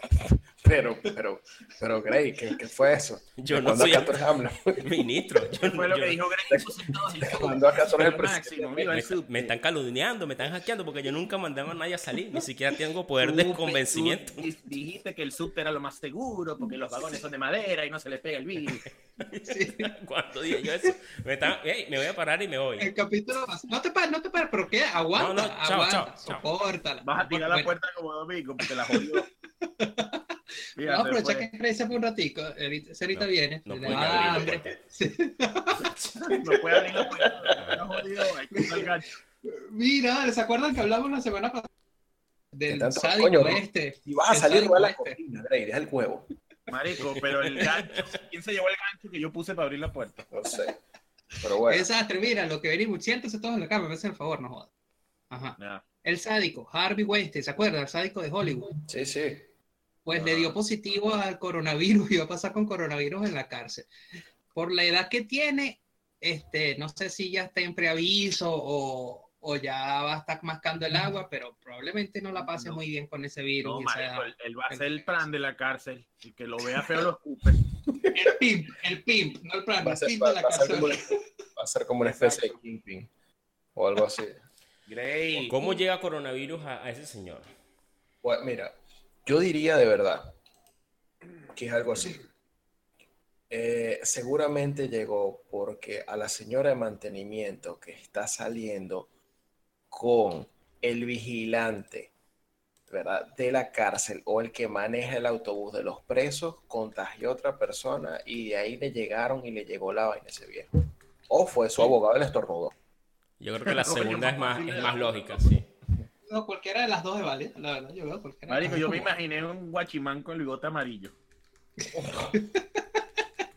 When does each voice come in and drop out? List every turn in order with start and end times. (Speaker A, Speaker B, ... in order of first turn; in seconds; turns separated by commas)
Speaker A: 0.2-5.5, Speaker B: 3.4-4.2, Speaker B: 4.8-6.2, Speaker C: 5.7-9.4, Speaker A: 6.5-9.5, Speaker B: 8.9-14.5, Speaker C: 13.2-18.9, Speaker B: 19.2-22.9, Speaker D: 19.4-19.9, Speaker D: 22.8-27.8, Speaker B: 25.1-26.5, Speaker C: 27.0-29.3, Speaker D: 28.7-29.1, Speaker D: 29.6-35.9, Speaker C: 30.8-31.5, Speaker B: 33.1-34.8, Speaker B: 35.9-36.1, Speaker C: 36.2-39.1, Speaker A: 37.2-37.5, Speaker B: 37.6-37.8, Speaker D: 38.5-38.9, Speaker D: 39.5-41.7, Speaker D: 42.5-45.2, Speaker A: 42.7-46.3, Speaker C: 46.7-50.3, Speaker B: 47.6-48.1, Speaker A: 50.3-50.8, Speaker A: 51.4-51.9, Speaker D: 51.6-54.7, Speaker D: 55.3-58.7, Speaker C: 55.6-55.8, Speaker A: 58.7-59.5, Speaker D: 60.0-63.9, Speaker C: 60.1-60.5, Speaker D: 64.5-75.2, Speaker C: 72.4-72.8, Speaker C: 73.6-77.6, Speaker D: 78.1-81.2, Speaker A: 79.8-83.1, Speaker C: 82.0-82.6, Speaker A: 83.7-84.4, Speaker C: 84.9-85.6, Speaker B: 85.4-87.5, Speaker A: 88.2-88.7, Speaker A: 89.2-90.3, Speaker A: 91.5-92.2, Speaker A: 93.5-99.1, Speaker A: 99.9-102.1, Speaker A: 102.9-110.7, Speaker A: 111.3-112.7, Speaker B: 113.4-115.7, Speaker C: 113.6-115.4, Speaker D: 116.3-119.1, Speaker C: 118.5-121.1, Speaker D: 121.8-123.2, Speaker A: 121.9-122.3